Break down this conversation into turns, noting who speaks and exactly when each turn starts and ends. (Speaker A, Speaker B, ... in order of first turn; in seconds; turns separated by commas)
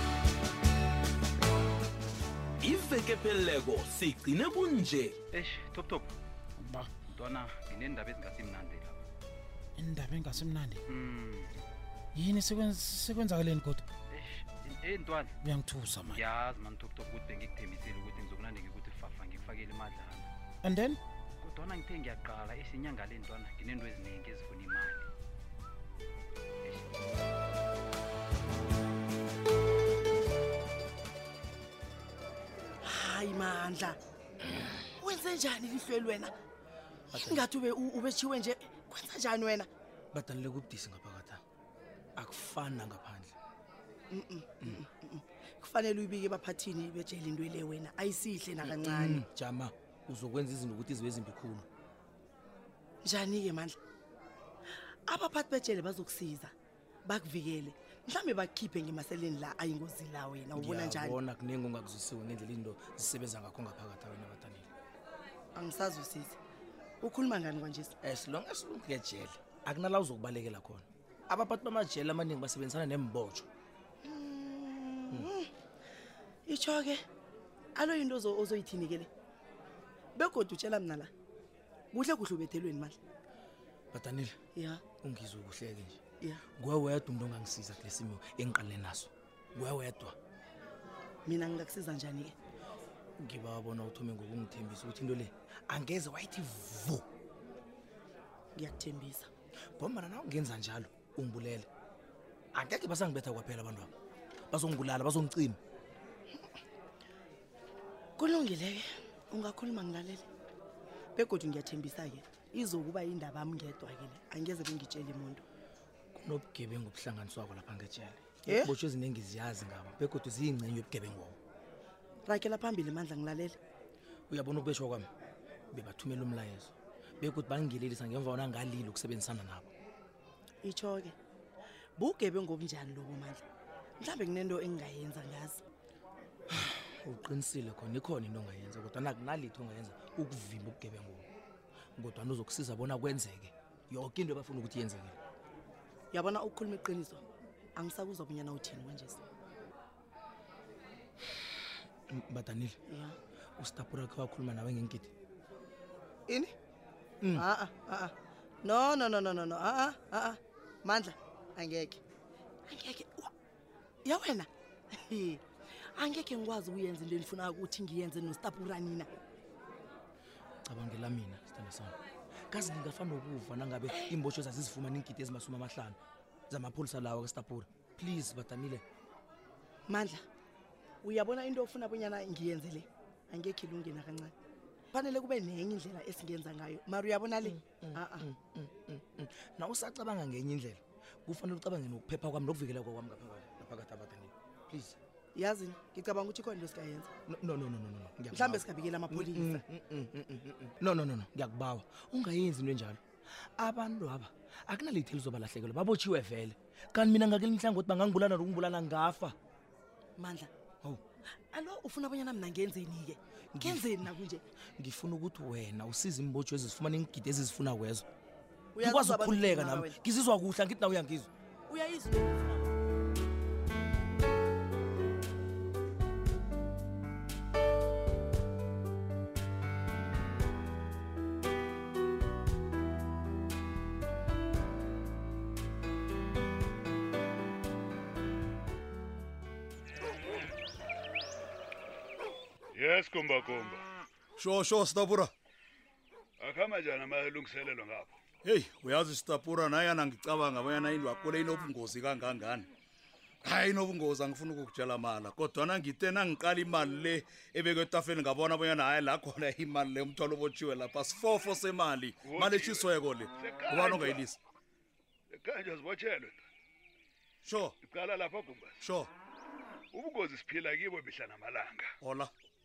Speaker A: 2.6-5.2, Speaker B: 5.3-6.1, Speaker C: 6.6-7.0, Speaker B: 7.0-9.0, Speaker C: 9.8-10.8, Speaker B: 10.9-11.5, Speaker C: 12.1-13.8, Speaker B: 14.1-15.4, Speaker C: 15.4-16.1, Speaker B: 16.1-20.3, Speaker C: 20.6-21.0, Speaker B: 21.4-25.0, Speaker B: 26.6-26.9, Speaker D: 32.8-34.0, Speaker D: 35.0-36.3, Speaker E: 37.1-37.5, Speaker D: 37.1-39.7, Speaker E: 40.1-41.4, Speaker E: 42.1-43.3, Speaker D: 44.1-49.2, Speaker E: 48.6-51.6, Speaker D: 53.0-53.8, Speaker D: 55.1-56.5, Speaker D: 57.0-61.2, Speaker E: 60.5-64.7, Speaker D: 65.5-66.4, Speaker D: 67.0-67.9, Speaker E: 68.0-73.5, Speaker D: 74.0-75.5, Speaker D: 76.5-77.0, Speaker D: 77.7-79.1, Speaker D: 80.2-81.1, Speaker D: 81.9-83.0, Speaker E: 83.9-84.4, Speaker D: 84.5-84.8, Speaker E: 84.9-90.2, Speaker D: 91.2-92.3, Speaker E: 93.2-97.0, Speaker D: 98.5-99.3, Speaker E: 99.8-101.7, Speaker E: 102.5-103.9, Speaker E: 104.5-105.6, Speaker D: 108.2-110.2, Speaker D: 111.1-115.4, Speaker E: 116.1-121.4, Speaker D: 118.5-118.7, Speaker D: 122.2-123.6, Speaker E: 124.3-125.1, Speaker E: 125.7-129.7, Speaker D: 130.6-131.1, Speaker D: 132.0-133.4, Speaker D: 134.0-135.6, Speaker E: 136.5-141.3, Speaker E: 142.0-145.2, Speaker D: 146.1-147.2, Speaker D: 147.8-149.2, Speaker E: 152.1-152.8, Speaker D: 152.9-153.1, Speaker E: 153.6-155.1, Speaker D: 156.3-156.5, Speaker D: 157.3-162.0, Speaker D: 162.7-163.3, Speaker D: 164.0-165.4, Speaker D: 165.9-169.1, Speaker E: 170.7-171.9, Speaker E: 172.5-176.0, Speaker E: 176.5-178.8, Speaker D: 179.9-180.2, Speaker D: 181.0-184.3, Speaker D: 184.9-188.3, Speaker E: 187.4-195.0, Speaker D: 195.3-197.1, Speaker E: 197.3-203.0, Speaker D: 198.3-199.6, Speaker E: 203.6-209.3, Speaker D: 210.2-210.5, Speaker D: 211.5-214.4, Speaker E: 213.5-214.0, Speaker E: 214.8-218.1, Speaker D: 218.7-220.0, Speaker E: 218.8-221.3, Speaker D: 221.7-222.7, Speaker F: 242.7-243.8, Speaker G: 244.4-245.3, Speaker F: 246.4-248.1, Speaker G: 248.4-252.7, Speaker G: 253.4-264.4, Speaker F: 262.2-264.3, Speaker F: 265.3-266.5, Speaker G: 267.4-267.7, Speaker F: 267.8-268.8, Speaker G: 268.8-269.1, Speaker F: 269.9-271.9, Speaker G: 272.0-272.3